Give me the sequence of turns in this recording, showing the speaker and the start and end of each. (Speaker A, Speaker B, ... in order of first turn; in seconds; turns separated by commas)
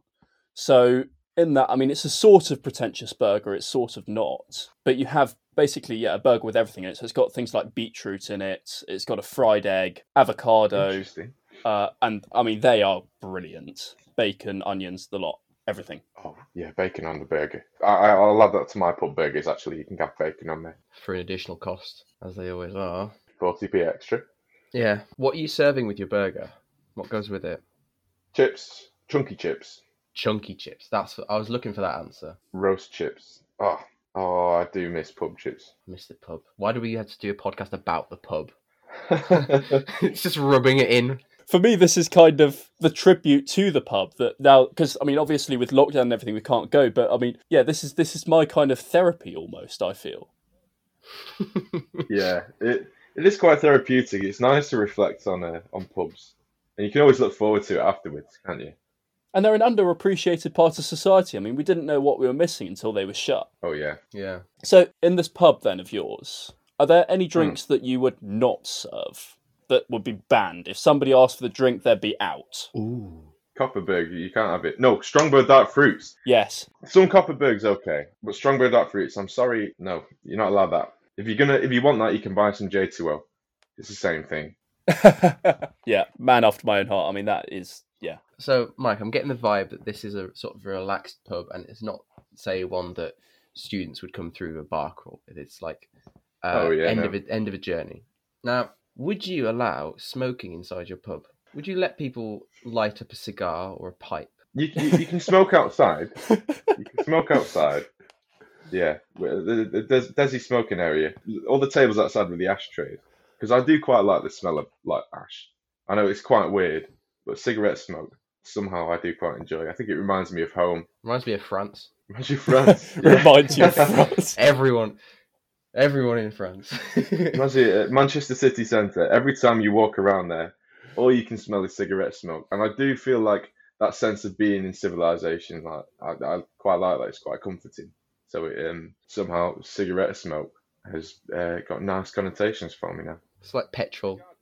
Speaker A: 0.5-11.1, Speaker B: 10.7-11.4, Speaker A: 11.6-16.0, Speaker B: 16.2-20.8, Speaker C: 20.9-23.1, Speaker B: 23.4-24.3, Speaker C: 24.7-27.6, Speaker B: 28.3-29.8, Speaker C: 30.1-32.4, Speaker B: 32.5-35.7, Speaker C: 35.9-38.5, Speaker B: 39.1-39.8, Speaker C: 39.2-41.2, Speaker A: 41.5-50.3, Speaker C: 51.4-52.0, Speaker B: 52.1-58.7, Speaker A: 59.3-63.5, Speaker B: 63.6-64.0, Speaker C: 64.1-64.4, Speaker A: 64.6-72.7, Speaker C: 72.7-73.3, Speaker B: 73.5-76.2, Speaker A: 76.2-76.7, Speaker B: 76.8-83.2, Speaker B: 83.8-84.5, Speaker A: 84.9-88.2, Speaker C: 88.4-95.9, Speaker C: 96.4-104.3, Speaker B: 96.5-97.2, Speaker B: 104.5-106.2, Speaker A: 106.3-106.7, Speaker B: 106.8-107.9, Speaker B: 108.7-120.9, Speaker C: 121.0-121.9, Speaker B: 122.1-124.0, Speaker A: 122.6-124.4, Speaker C: 124.3-125.0, Speaker C: 125.7-127.4, Speaker B: 127.3-143.2, Speaker C: 143.4-144.2